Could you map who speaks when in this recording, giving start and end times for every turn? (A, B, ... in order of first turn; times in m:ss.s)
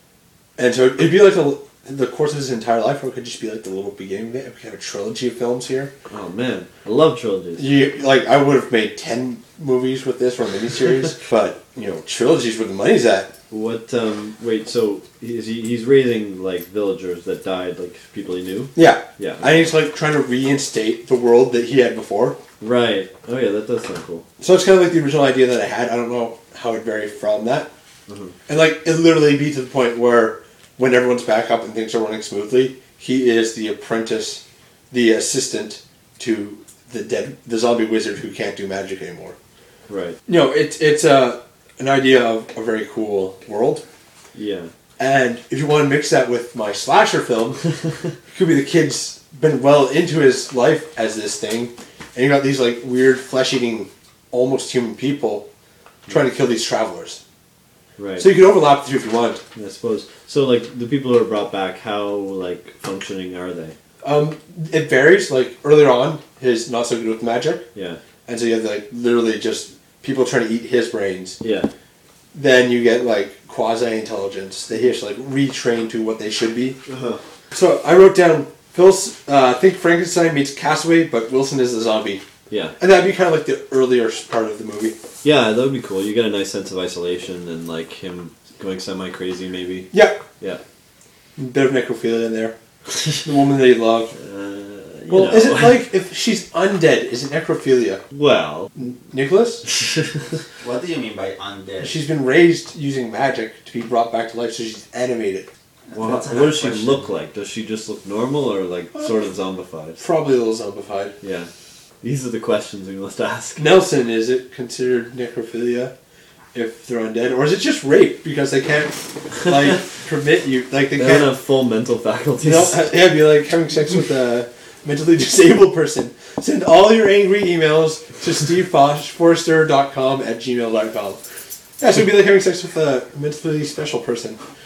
0:00.6-0:05.9 A
0:06.1-0:07.7 B
0:07.6-0:13.4 A
0:13.5-0:19.7 B
0:18.8-0:22.4 A
0:22.6-0:24.3 B
0:24.4-0:27.7 A
0:28.1-0:28.4 B
0:28.5-0:39.4 A
0:39.9-0:40.2 B
0:40.3-0:43.8 A
0:44.3-0:44.7 B
0:45.0-0:47.6 A
0:48.3-0:55.5 A
0:56.1-0:57.2 A
0:58.0-0:58.3 B
0:58.2-0:59.4 A
0:59.6-1:03.8 B
1:04.0-1:07.6 A
1:07.8-1:08.0 B
1:08.3-1:11.4 A
1:11.4-1:11.7 B
1:12.3-1:16.8 A
1:16.9-1:17.2 B
1:17.5-1:22.2 A
1:22.5-1:22.8 B
1:22.8-1:25.0 A
1:25.2-1:30.6 B
1:29.9-1:30.2 A
1:31.4-1:32.6 A
1:33.2-1:34.1 A
1:34.1-1:35.9 B
1:35.1-1:38.0 A
1:38.1-1:38.7 B
1:38.8-1:39.7 A
1:39.8-1:40.1 B
1:40.6-1:42.0 C
1:41.8-1:45.5 A
1:45.9-1:47.0 C
1:45.9-1:50.0 B
1:50.0-1:51.2 A
1:51.2-1:51.5 B
1:52.0-1:53.7 B
1:53.6-1:55.9 A
1:56.5-2:01.3 A
2:01.0-2:02.9 B
2:02.4-2:11.2 A
2:11.8-2:14.4 A